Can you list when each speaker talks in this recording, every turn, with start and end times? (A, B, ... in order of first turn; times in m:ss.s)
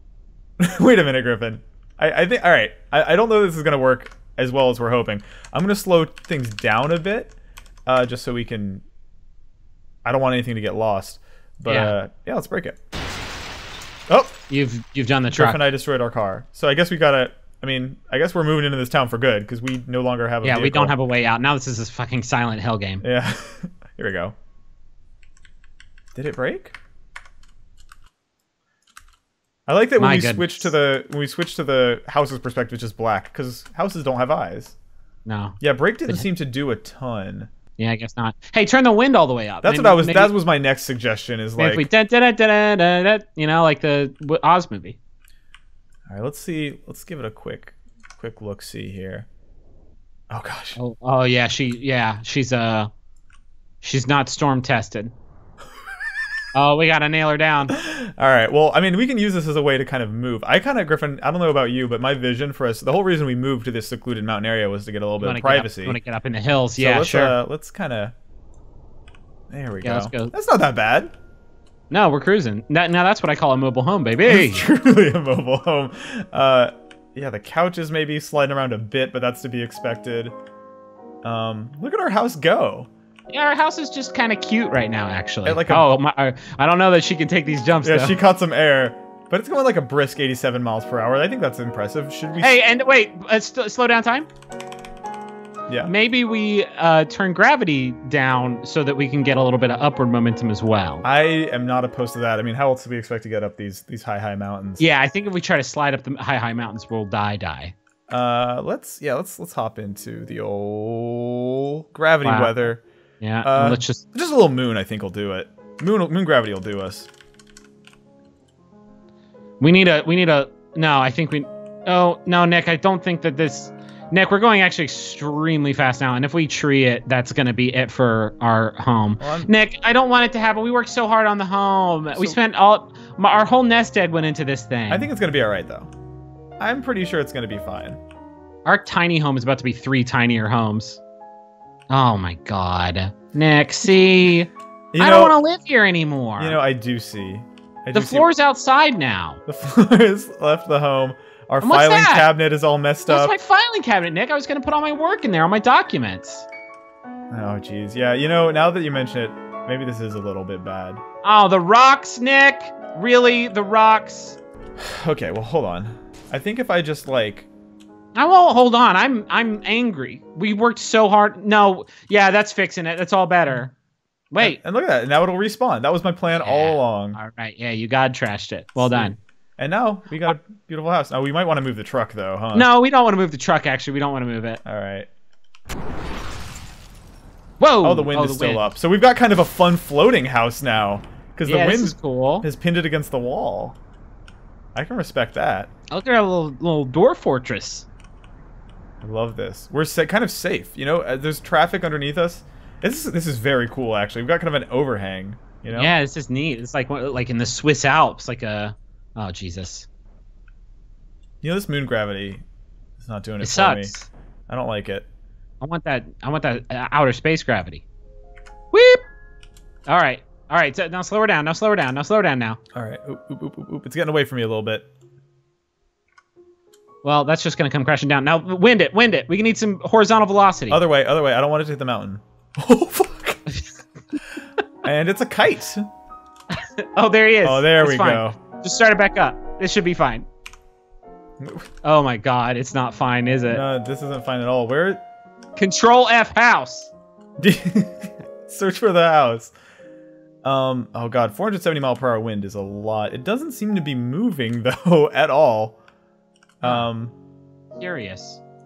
0:00.6-0:08.8 A
0:10.0-0:12.8 A
0:11.7-0:12.0 B
0:14.1-0:14.4 A
0:14.5-0:15.6 B
0:15.3-0:21.0 A
0:20.4-0:23.0 B
0:23.0-0:24.3 A
0:26.1-0:26.8 A
0:29.7-0:34.8 A
0:30.0-0:30.7 B
0:35.2-0:36.3 B
0:35.6-0:37.5 A
0:37.8-0:40.3 B
0:39.6-0:41.9 A
0:41.6-0:45.0 B
0:46.1-0:49.3 A
0:50.3-0:50.8 A
0:50.8-0:52.9 B
0:53.8-0:55.1 B
0:56.5-0:57.7 B
0:57.7-1:06.0 A
1:05.2-1:07.4 B
1:06.8-1:08.1 A
1:09.5-1:11.1 A
1:09.8-1:10.3 B
1:11.9-1:14.7 B
1:14.2-1:20.3 A
1:21.2-1:22.9 A
1:23.3-1:28.2 B
1:25.4-1:25.9 A
1:27.8-1:32.6 A
1:32.4-1:34.3 B
1:35.8-1:41.0 B
1:41.0-1:44.8 A
1:44.8-1:47.7 B
1:48.1-1:52.8 A
1:52.2-1:54.0 B
1:53.4-1:57.1 A
1:59.6-2:15.1 B
2:09.2-2:09.5 A
2:14.9-2:15.9 A
2:16.6-2:18.0 A
2:18.6-2:21.0 B
2:21.9-2:26.6 B
2:24.9-2:25.4 A
2:26.4-2:28.3 A
2:27.9-2:29.4 B
2:29.5-2:33.3 A
2:31.6-2:32.3 B
2:33.0-2:36.4 B
2:37.3-2:41.0 A
2:41.2-2:44.4 B
2:44.8-2:47.5 A
2:48.1-2:53.7 B
2:54.3-2:54.6 B
2:54.4-2:57.2 A
2:56.3-2:59.2 B
2:58.8-3:02.7 A
3:02.5-3:04.6 B
3:04.6-3:05.1 A
3:07.6-3:08.7 B
3:07.8-3:13.8 A
3:11.4-3:12.4 B
3:14.7-3:15.7 A
3:15.9-3:17.9 B
3:19.0-3:25.9 A
3:25.7-3:29.9 B
3:31.4-3:32.4 A
3:33.0-3:33.9 A
3:33.4-3:34.1 B
3:34.5-3:35.1 A
3:35.6-3:37.8 B
3:38.7-3:39.0 B
3:39.9-3:42.6 B
3:42.7-3:44.9 A
3:47.0-3:50.8 B
3:50.7-3:53.4 A
3:54.8-3:55.9 A
3:56.8-4:00.3 B
3:57.4-3:58.4 A
4:01.4-4:01.6 A
4:01.8-4:03.6 B
4:03.5-4:05.0 A
4:05.6-4:06.9 B
4:07.4-4:09.5 A
4:10.4-4:15.8 A
4:16.6-4:17.1 A
4:16.6-4:16.9 B
4:17.8-4:18.4 B